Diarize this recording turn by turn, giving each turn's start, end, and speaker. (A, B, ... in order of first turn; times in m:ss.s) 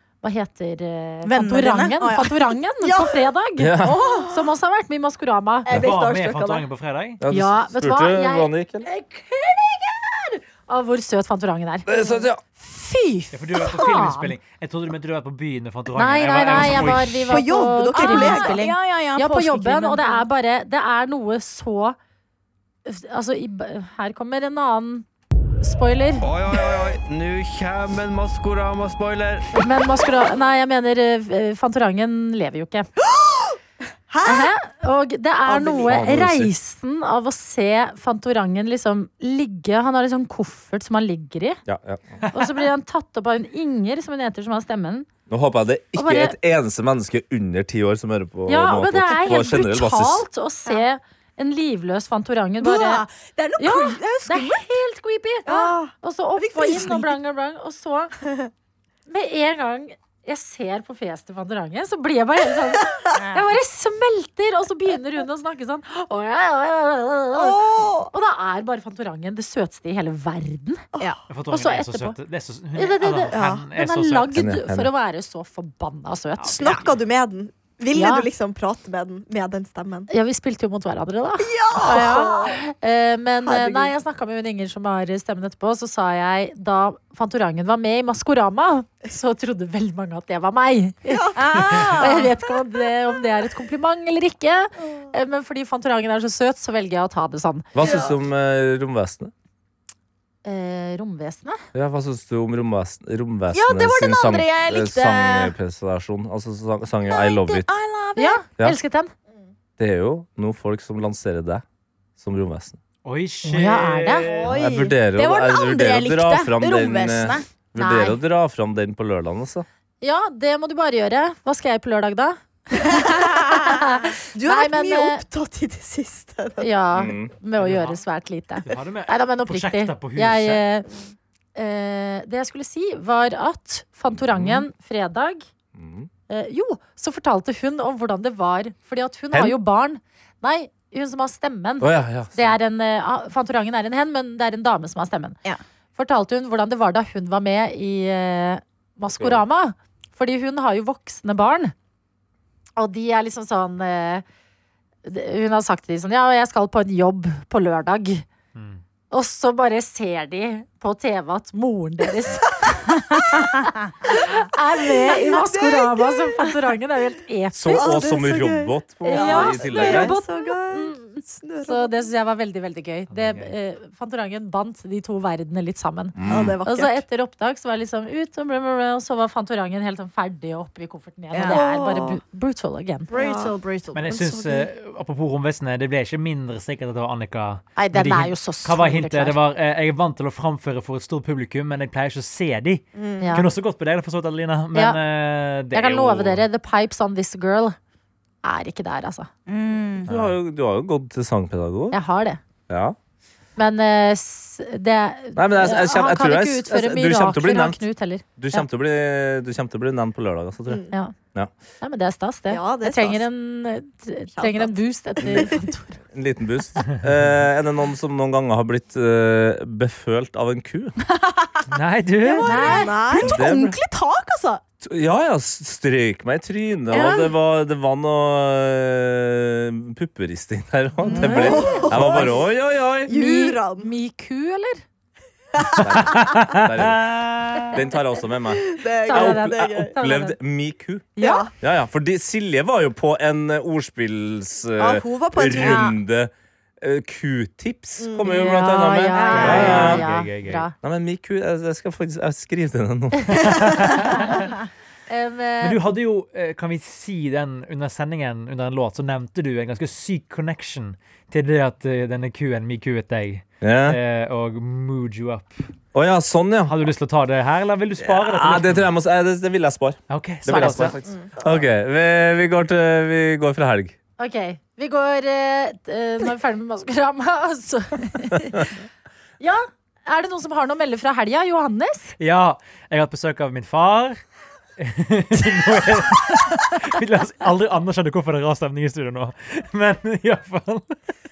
0:00.2-0:05.7 A
0:01.2-0:03.0 B
0:03.6-0:04.0 C
0:03.8-0:04.2 B
0:04.0-0:04.3 D
0:05.6-0:06.7 D
0:05.7-0:07.2 E
0:07.2-0:08.9 C
0:07.3-0:12.0 A
0:11.8-0:12.4 C
0:12.8-0:14.4 A
0:13.0-0:13.2 B
0:13.3-0:17.4 E
0:15.9-0:22.0 A
0:16.6-0:18.6 D
0:17.6-0:20.2 B
0:22.8-0:25.0 A
0:25.6-0:26.2 A
0:26.2-0:29.6 F
0:29.5-0:32.9 A
0:34.1-0:34.5 D
0:34.2-0:41.6 A
0:35.5-0:35.9 D
0:35.9-0:36.5 C
0:41.6-0:42.3 C
0:42.3-0:45.1 A
0:45.3-0:50.2 C
0:45.9-0:46.4 A
0:48.5-0:53.0 A
0:52.6-0:54.6 B
0:53.6-0:58.1 A
0:55.4-0:55.9 D
0:56.4-0:57.1 B
0:59.1-1:10.9 A
1:03.2-1:03.4 B
1:07.3-1:08.1 D
1:11.3-1:14.3 E
1:11.5-1:12.2 A
1:12.8-1:16.8 A
1:13.3-1:13.6 D
1:14.3-1:14.9 C
1:16.4-1:17.0 E
1:16.6-1:20.1 D
1:17.9-1:18.2 A
1:20.1-1:37.7 A
1:21.4-1:22.6 D
1:23.4-1:23.9 D
1:31.1-1:32.3 D
1:31.3-1:32.3 B
1:37.7-1:39.3 C
1:37.8-1:38.1 D
1:37.8-1:38.1 B
1:40.4-1:41.6 A
1:41.7-1:47.7 C
1:43.5-1:45.5 B
1:47.1-1:48.4 B
1:48.2-1:49.1 A
1:49.8-1:51.6 C
1:52.2-1:52.8 C
1:53.0-1:54.5 E
1:53.4-1:54.3 A
1:54.3-1:55.0 D
1:54.4-1:59.6 C
1:55.0-1:57.4 B
1:57.8-1:58.2 A
2:00.0-2:05.2 A
2:02.8-2:06.7 D
2:06.6-2:10.9 A
2:06.9-2:07.3 C
2:07.6-2:08.0 E
2:08.6-2:10.6 E
2:11.6-2:15.4 A
2:14.1-2:14.6 C
2:15.7-2:16.1 C
2:16.3-2:25.4 A
2:19.3-2:19.6 C
2:21.8-2:22.6 C
2:26.0-2:31.7 A
2:29.1-2:29.4 C
2:32.8-2:34.2 A
2:35.0-2:38.3 A
2:38.5-2:38.8 E
2:39.1-2:48.0 A
2:45.0-2:46.5 D
2:47.5-2:50.2 C
2:47.7-2:52.0 D
2:49.0-3:03.1 A
2:53.1-2:53.5 E
2:56.2-2:56.6 C
2:56.2-2:57.0 D
3:01.3-3:02.2 D
3:03.1-3:04.6 D
3:03.1-3:04.3 B
3:03.9-3:16.4 E
3:07.8-3:09.4 A
3:12.9-3:13.4 D
3:13.2-3:13.5 A
3:14.7-3:15.0 A
3:15.7-3:17.8 A
3:18.4-3:19.3 A
3:19.5-3:20.1 B
3:20.0-3:20.3 E
3:20.1-3:22.0 C
3:21.9-3:22.4 A
3:22.7-3:23.0 C
3:23.6-3:28.6 A
3:25.4-3:27.8 C
3:28.4-3:31.5 C
3:30.7-3:30.9 D
3:31.8-3:36.0 A
3:32.5-3:33.3 D
3:34.4-3:35.5 D
3:35.2-3:35.5 C
3:36.1-3:41.0 C
3:41.1-3:41.6 B
3:41.7-3:42.7 E
3:42.2-3:44.6 B
3:42.4-3:43.0 A
3:42.5-3:43.4 D
3:43.2-3:43.8 C
3:44.8-3:53.1 C
3:46.9-3:47.3 D
3:51.0-3:52.1 B
3:51.2-3:52.4 D
3:51.2-3:51.9 A
3:53.1-3:53.9 D
3:53.1-3:54.8 A
3:55.6-3:55.9 D
3:55.8-4:10.0 C
3:56.0-3:57.7 E
3:58.5-3:59.9 D
3:59.0-4:00.4 A
4:01.2-4:01.5 D
4:04.8-4:05.9 D
4:05.6-4:05.9 A
4:08.0-4:08.5 D
4:08.2-4:10.7 A
4:09.1-4:10.0 B
4:09.2-4:09.7 D
4:09.3-4:10.6 E
4:10.8-4:13.9 C
4:13.5-4:14.4 E
4:14.1-4:14.4 A
4:15.1-4:15.8 A
4:15.6-4:25.6 E
4:23.6-4:24.0 C
4:25.9-4:26.8 C
4:26.6-4:28.9 E
4:28.0-4:33.9 C
4:30.1-4:31.0 E
4:31.0-4:31.4 D
4:34.2-4:38.7 A
4:39.4-4:42.1 A
4:42.2-4:44.2 E
4:44.8-4:51.0 E